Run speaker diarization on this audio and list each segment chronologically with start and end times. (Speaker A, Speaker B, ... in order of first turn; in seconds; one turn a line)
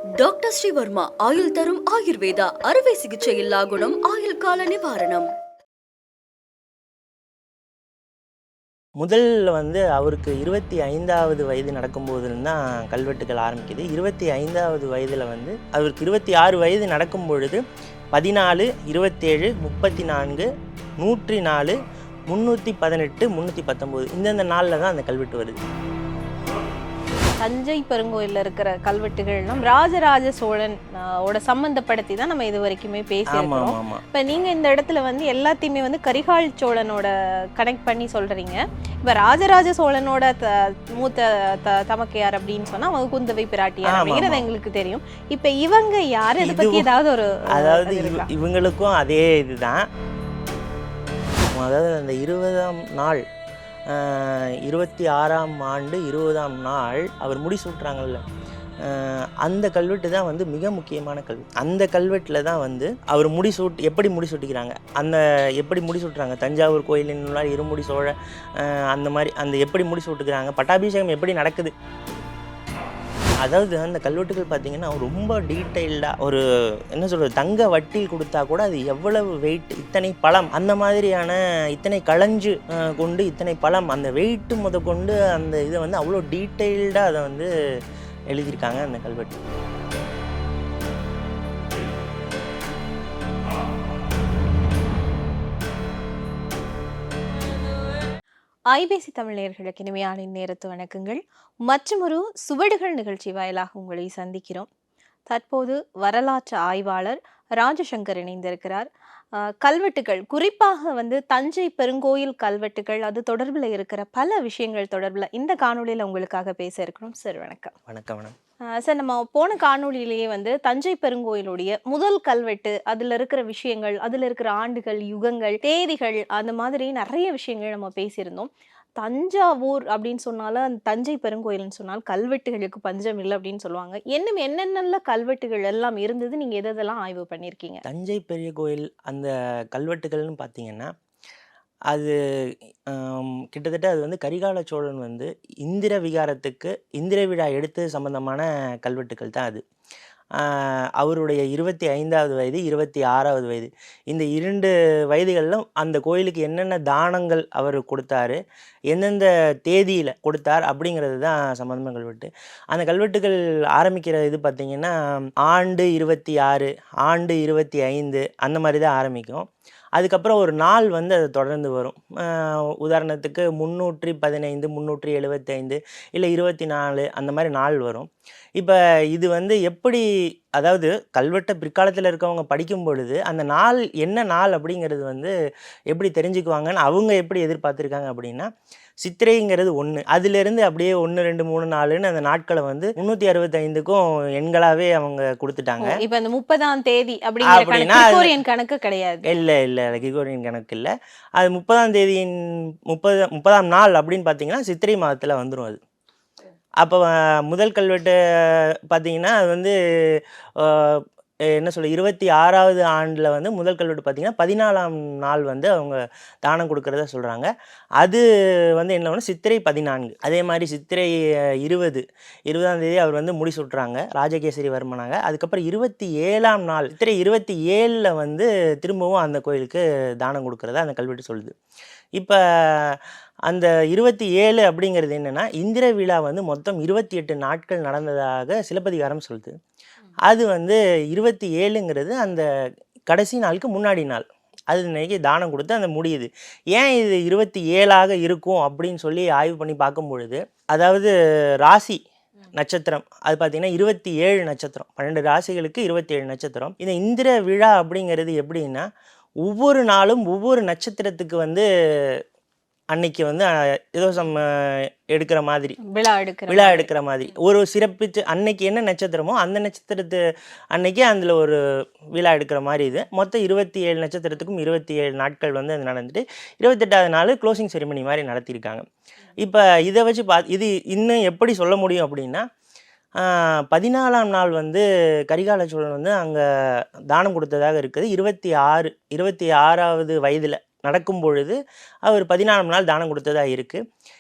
Speaker A: 0.1-5.3
Speaker B: 9.0-17.6
Speaker B: 18.1-20.5
Speaker B: 21.0-25.6
Speaker C: 27.4-48.3
Speaker B: 33.3-34.0
Speaker B: 43.8-44.5
Speaker B: 46.4-46.9
Speaker B: 47.5-49.9
Speaker B: 51.5-53.2
Speaker B: 53.9-58.2
Speaker B: 58.8-71.7
Speaker B: 73.4-87.5
Speaker B: 88.3-89.4
Speaker C: 98.7-104.7
Speaker C: 105.3-117.7
Speaker B: 117.9-118.4
Speaker C: 118.7-137.8
Speaker B: 137.8-140.9
Speaker B: 141.9-149.6
Speaker B: 150.3-158.4
Speaker B: 158.9-180.1
Speaker B: 180.6-185.3
Speaker B: 185.9-188.5
Speaker B: 189.0-196.0
Speaker C: 195.8-199.2
Speaker B: 197.4-198.3
Speaker B: 199.2-205.8
Speaker B: 206.8-218.2
Speaker B: 218.8-231.5
Speaker B: 232.2-239.6
Speaker B: 240.2-242.4
Speaker B: 243.1-252.0
Speaker B: 252.5-258.9
Speaker B: 259.4-262.2
Speaker B: 262.9-265.8
Speaker C: 265.9-266.9
Speaker B: 266.5-270.2
Speaker B: 270.7-271.6
Speaker B: 272.1-278.9
Speaker B: 279.4-282.5
Speaker B: 283.2-293.8